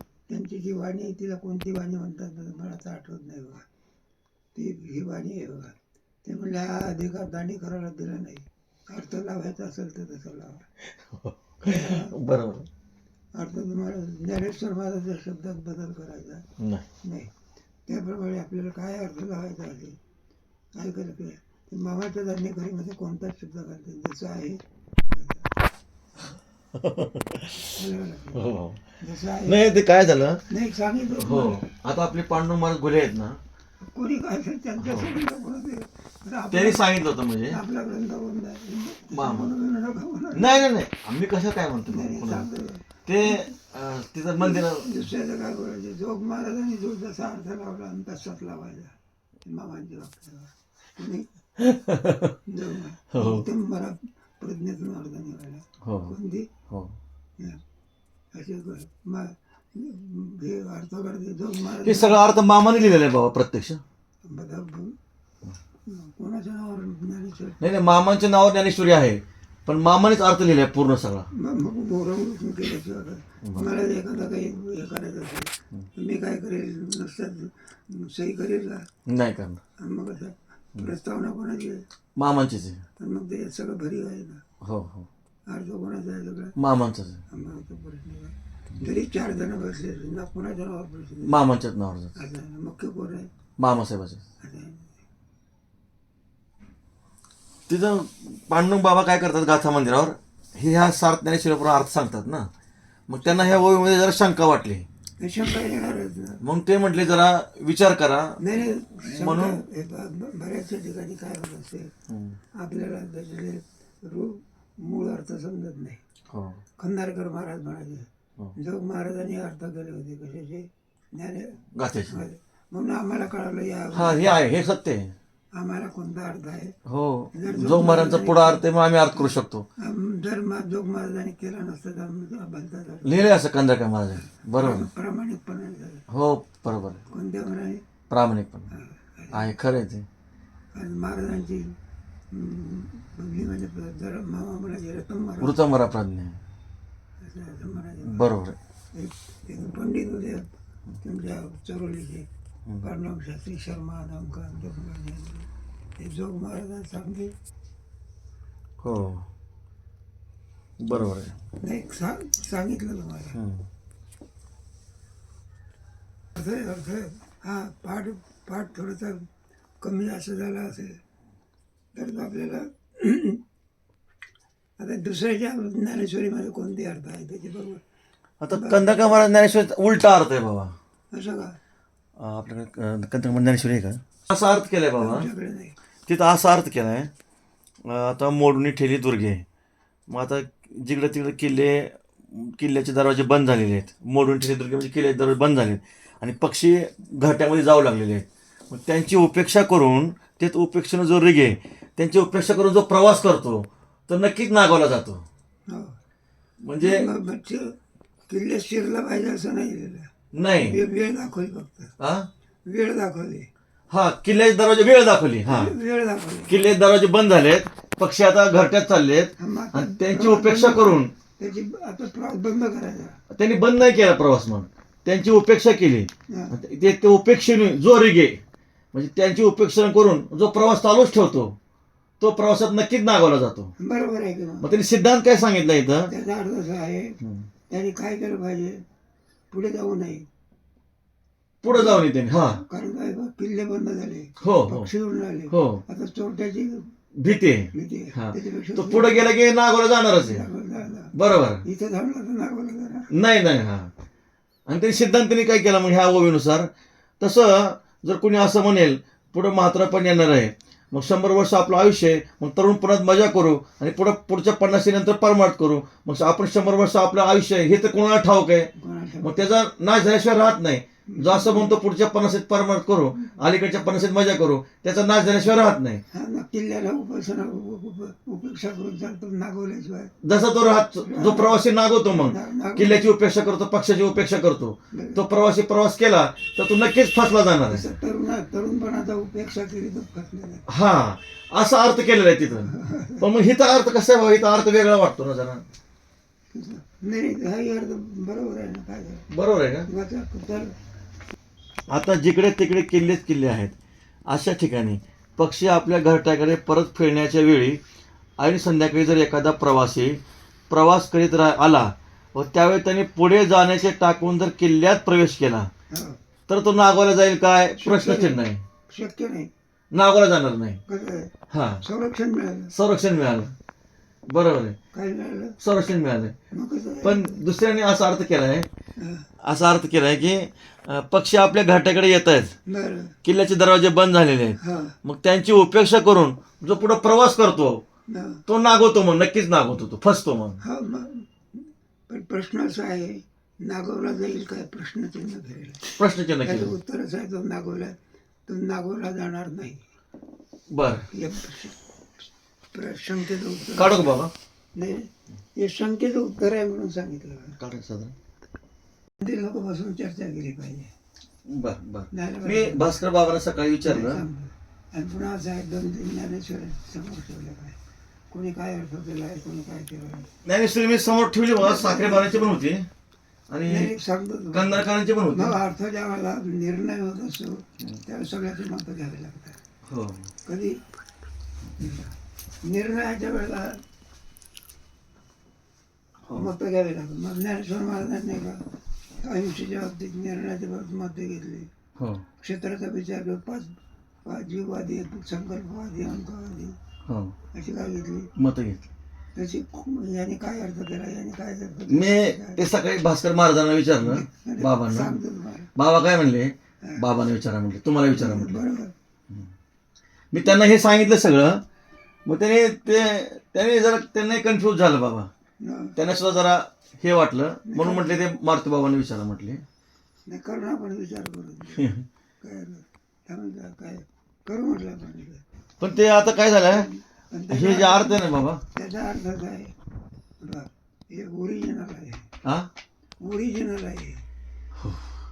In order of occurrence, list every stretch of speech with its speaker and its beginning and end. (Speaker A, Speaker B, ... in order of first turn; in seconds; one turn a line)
Speaker A: 0.3-3.6
Speaker A: 4.5-10.6
Speaker B: 10.9-12.7
Speaker A: 11.6-12.1
Speaker A: 13.3-16.4
Speaker B: 16.6-16.9
Speaker A: 17.0-17.3
Speaker A: 17.9-20.0
Speaker A: 20.8-25.5
Speaker B: 26.7-27.8
Speaker A: 27.7-28.5
Speaker B: 28.3-28.9
Speaker A: 29.0-29.6
Speaker B: 29.4-30.4
Speaker A: 30.5-31.6
Speaker B: 31.1-33.4
Speaker A: 33.8-36.9
Speaker B: 34.8-35.2
Speaker B: 36.5-37.6
Speaker A: 37.5-40.7
Speaker B: 39.1-39.5
Speaker B: 40.3-42.5
Speaker A: 41.9-43.4
Speaker B: 43.0-45.0
Speaker A: 44.4-51.3
Speaker B: 51.6-52.4
Speaker A: 52.5-56.5
Speaker B: 53.1-53.5
Speaker B: 55.8-56.1
Speaker B: 56.7-57.0
Speaker A: 58.3-62.2
Speaker B: 61.8-63.8
Speaker A: 64.2-64.9
Speaker A: 65.9-67.6
Speaker B: 67.6-71.3
Speaker A: 71.3-78.8
Speaker B: 73.4-73.7
Speaker B: 79.1-79.6
Speaker A: 79.8-81.8
Speaker B: 82.2-82.8
Speaker A: 83.0-84.4
Speaker B: 84.6-85.1
Speaker A: 85.5-86.5
Speaker B: 86.6-87.2
Speaker A: 87.3-91.4
Speaker B: 91.2-92.1
Speaker A: 92.2-93.3
Speaker B: 93.6-94.2
Speaker A: 94.4-95.0
Speaker B: 97.7-102.5
Speaker B: 103.1-104.9
Speaker A: 105.2-106.4
Speaker B: 106.4-109.6
Speaker A: 108.4-111.9
Speaker B: 112.1-112.4
Speaker A: 112.5-116.0
Speaker B: 116.3-116.6
Speaker A: 116.8-124.4
Speaker B: 121.8-122.2
Speaker B: 123.9-125.1
Speaker A: 125.6-126.7
Speaker B: 126.8-129.7
Speaker A: 127.3-128.6
Speaker A: 129.8-133.2
Speaker B: 133.0-134.9
Speaker A: 134.5-136.0
Speaker B: 136.1-137.1
Speaker A: 137.1-137.8
Speaker B: 138.1-138.7
Speaker A: 138.7-139.5
Speaker B: 139.3-140.1
Speaker A: 140.7-141.7
Speaker A: 142.3-145.6
Speaker B: 145.4-146.4
Speaker A: 147.2-148.3
Speaker B: 148.1-148.6
Speaker A: 148.9-150.4
Speaker A: 151.0-152.3
Speaker A: 152.8-157.3
Speaker B: 158.8-159.3
Speaker B: 160.8-161.3
Speaker A: 161.6-163.4
Speaker B: 163.3-163.7
Speaker A: 166.3-169.3
Speaker A: 169.8-171.0
Speaker A: 171.9-173.4
Speaker A: 174.8-177.8
Speaker B: 178.4-180.8
Speaker A: 178.5-179.2
Speaker A: 181.1-181.6
Speaker B: 182.2-185.3
Speaker A: 185.0-185.7
Speaker B: 186.1-187.1
Speaker B: 187.8-189.4
Speaker B: 190.1-205.2
Speaker A: 205.7-205.9
Speaker B: 206.6-207.1
Speaker A: 206.8-207.7
Speaker A: 208.3-210.1
Speaker B: 210.3-210.8
Speaker A: 210.6-211.9
Speaker B: 212.0-212.3
Speaker A: 212.7-213.5
Speaker B: 213.9-215.8
Speaker A: 215.5-216.6
Speaker B: 216.5-221.1
Speaker A: 219.4-223.2
Speaker B: 223.3-228.4
Speaker B: 228.9-231.6
Speaker B: 232.2-233.7
Speaker A: 233.8-234.7
Speaker B: 234.6-236.1
Speaker A: 236.1-237.2
Speaker B: 237.2-237.5
Speaker A: 237.7-238.8
Speaker A: 239.5-240.2
Speaker B: 241.6-242.6
Speaker A: 241.7-246.9
Speaker B: 244.4-244.9
Speaker B: 245.5-245.8
Speaker B: 247.2-250.5
Speaker A: 247.7-249.3
Speaker A: 250.2-251.1
Speaker B: 251.1-251.6
Speaker A: 251.6-253.1
Speaker B: 253.1-253.9
Speaker B: 254.7-256.7
Speaker B: 257.2-276.0
Speaker A: 268.8-269.5
Speaker A: 271.1-271.8
Speaker A: 276.1-280.1
Speaker B: 280.2-287.9
Speaker A: 281.0-283.2
Speaker A: 284.9-285.2
Speaker A: 287.7-290.6
Speaker B: 290.7-295.6
Speaker A: 292.6-293.2
Speaker A: 296.5-299.2
Speaker B: 299.3-299.9
Speaker A: 299.9-300.7
Speaker B: 301.9-303.7
Speaker B: 304.3-307.8
Speaker B: 308.4-315.7
Speaker A: 315.9-316.2
Speaker B: 316.5-318.6
Speaker A: 317.8-319.5
Speaker B: 319.9-320.8
Speaker A: 320.9-322.7
Speaker B: 321.5-321.8
Speaker B: 322.7-323.5
Speaker B: 324.3-324.8
Speaker A: 324.9-325.6
Speaker B: 325.6-326.3
Speaker A: 326.5-327.4
Speaker B: 327.0-328.7
Speaker A: 329.0-329.2
Speaker B: 329.4-332.5
Speaker A: 332.7-333.1
Speaker B: 333.2-337.8
Speaker A: 334.6-334.9
Speaker A: 338.1-338.4
Speaker B: 338.5-340.6
Speaker A: 340.6-347.9
Speaker B: 346.0-346.7
Speaker A: 348.5-349.8
Speaker B: 350.7-351.1
Speaker A: 351.1-351.8
Speaker A: 352.7-354.2
Speaker B: 353.7-354.3
Speaker A: 354.8-357.6
Speaker B: 357.6-358.1
Speaker A: 359.2-360.9
Speaker B: 361.4-364.3
Speaker A: 362.1-363.0
Speaker A: 363.8-367.8
Speaker A: 368.3-370.3
Speaker B: 370.4-372.9
Speaker A: 371.6-372.6
Speaker B: 373.5-373.9
Speaker A: 373.7-379.6
Speaker B: 374.5-375.6
Speaker B: 379.9-380.3
Speaker A: 380.4-380.8
Speaker A: 381.8-382.1
Speaker A: 382.6-383.8
Speaker B: 386.2-386.5
Speaker A: 386.3-388.6
Speaker A: 389.2-391.7
Speaker B: 392.0-392.2
Speaker A: 392.4-393.7
Speaker A: 394.2-396.8
Speaker B: 397.1-397.3
Speaker A: 397.5-398.3
Speaker B: 398.4-398.9
Speaker A: 399.4-402.6
Speaker B: 401.9-405.2
Speaker A: 404.0-405.7
Speaker B: 405.8-408.6
Speaker A: 408.1-408.9
Speaker B: 410.3-411.6
Speaker B: 412.2-415.3
Speaker A: 415.6-415.9
Speaker B: 415.9-419.6
Speaker A: 417.6-418.2
Speaker A: 420.3-425.4
Speaker B: 421.7-422.0
Speaker B: 425.8-426.9
Speaker A: 426.7-429.7
Speaker B: 427.5-428.6
Speaker A: 430.4-432.3
Speaker A: 433.2-434.2
Speaker B: 434.8-435.1